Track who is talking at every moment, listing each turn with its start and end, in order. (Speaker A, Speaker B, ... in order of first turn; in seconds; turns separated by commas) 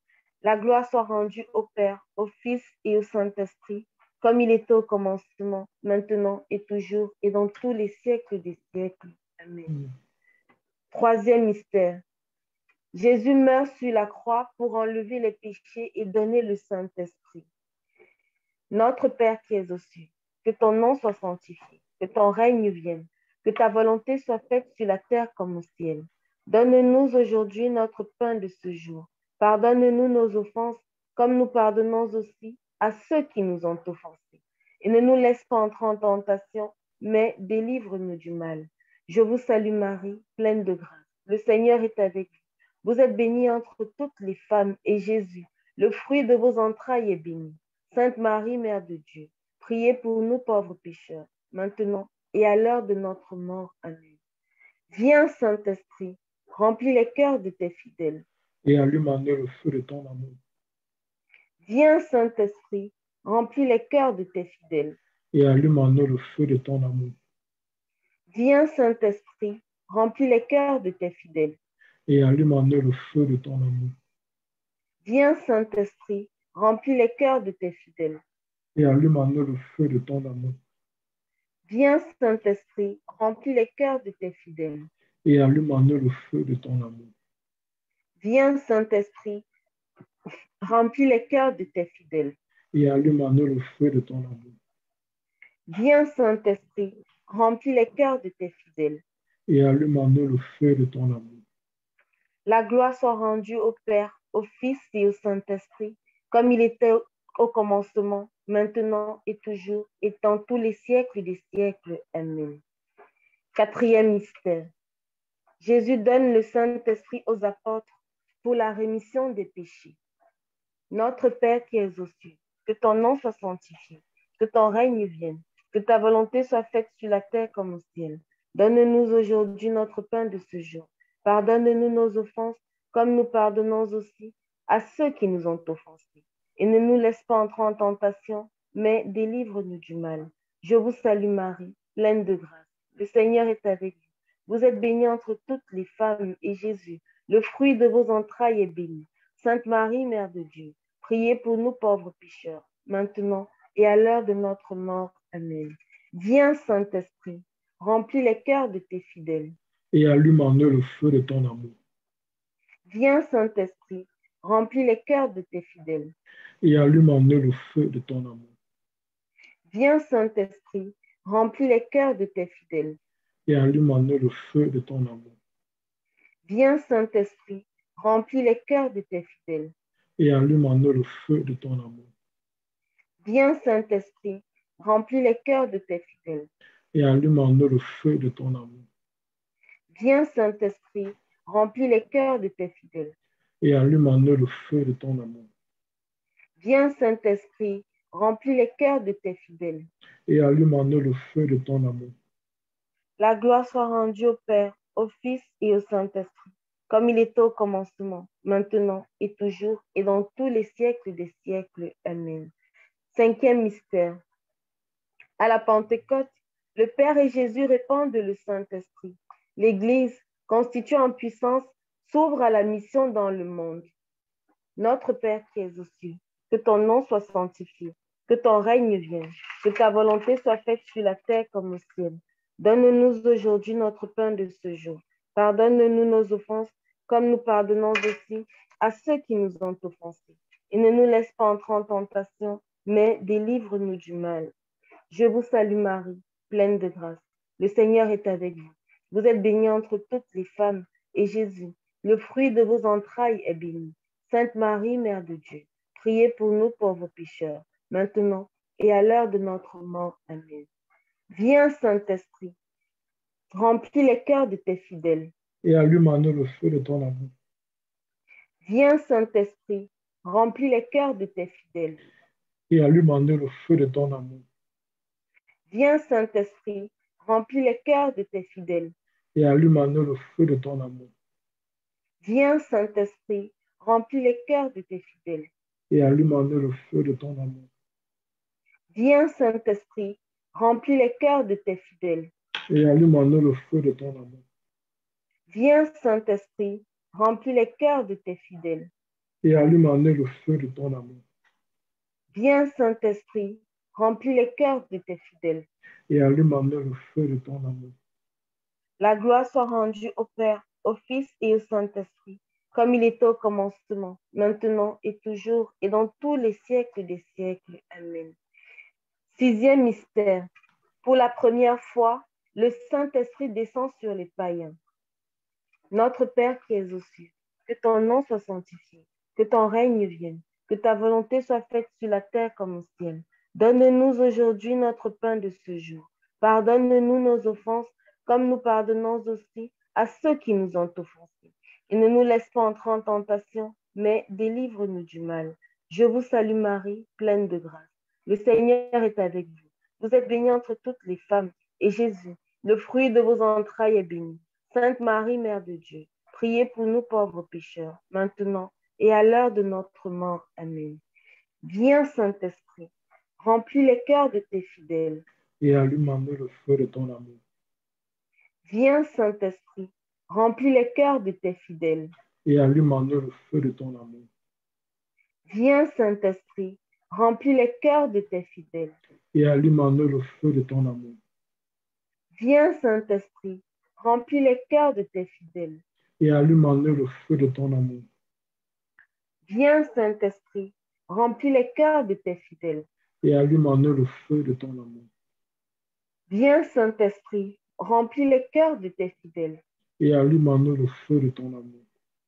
Speaker A: 0.4-9.7, Speaker A: 10.9-12.0, Speaker A: 12.9-17.4, Speaker A: 18.7-34.2, Speaker A: 34.8-42.3, Speaker A: 42.8-54.1, Speaker A: 54.9-58.2, Speaker B: 58.6-60.4, Speaker A: 61.6-65.0, Speaker B: 65.3-67.2, Speaker A: 68.3-71.6, Speaker B: 72.1-74.0, Speaker A: 75.0-78.2, Speaker B: 78.8-80.6, Speaker A: 81.7-84.9, Speaker B: 85.2-87.1, Speaker A: 88.2-89.5, Speaker A: 90.6-92.4, Speaker B: 92.7-94.6, Speaker A: 95.7-99.0, Speaker B: 99.5-101.4, Speaker A: 102.5-112.6, Speaker A: 113.5-114.7, Speaker A: 115.6-117.9, Speaker A: 118.4-120.0, Speaker A: 120.9-136.1, Speaker A: 136.6-159.6, Speaker B: 159.9-161.8, Speaker A: 162.9-166.1, Speaker B: 166.6-168.5, Speaker A: 169.7-173.0, Speaker B: 173.5-175.4, Speaker A: 176.5-179.7, Speaker B: 180.2-182.1, Speaker A: 183.2-186.5, Speaker B: 186.9-188.9, Speaker A: 189.9-193.2, Speaker B: 193.6-195.5, Speaker A: 196.6-199.9, Speaker B: 200.3-202.2, Speaker A: 203.2-212.5, Speaker A: 213.1-214.2, Speaker A: 215.4-223.9, Speaker A: 224.8-244.5, Speaker A: 245.1-260.7, Speaker A: 261.3-262.6, Speaker A: 263.5-265.3, Speaker B: 265.6-267.3, Speaker A: 268.6-272.0, Speaker B: 272.7-274.4, Speaker A: 275.7-278.9, Speaker B: 279.4-281.1, Speaker A: 282.2-285.5, Speaker B: 285.9-287.7, Speaker A: 288.9-292.3, Speaker B: 292.7-294.4, Speaker A: 295.5-298.9, Speaker B: 299.4-301.2, Speaker A: 302.3-305.7, Speaker B: 306.1-307.9, Speaker A: 309.0-318.4, Speaker A: 319.3-320.5, Speaker A: 321.0-324.8, Speaker A: 325.9-361.0, Speaker A: 361.6-362.9, Speaker A: 363.4-365.2, Speaker B: 365.6-367.4, Speaker A: 368.7-372.1, Speaker B: 372.4-374.3, Speaker A: 375.5-378.9, Speaker B: 379.3-381.2, Speaker A: 382.4-385.8, Speaker B: 386.2-388.1, Speaker A: 389.5-392.9, Speaker B: 393.2-395.1, Speaker A: 396.3-399.6, Speaker B: 400.0-401.9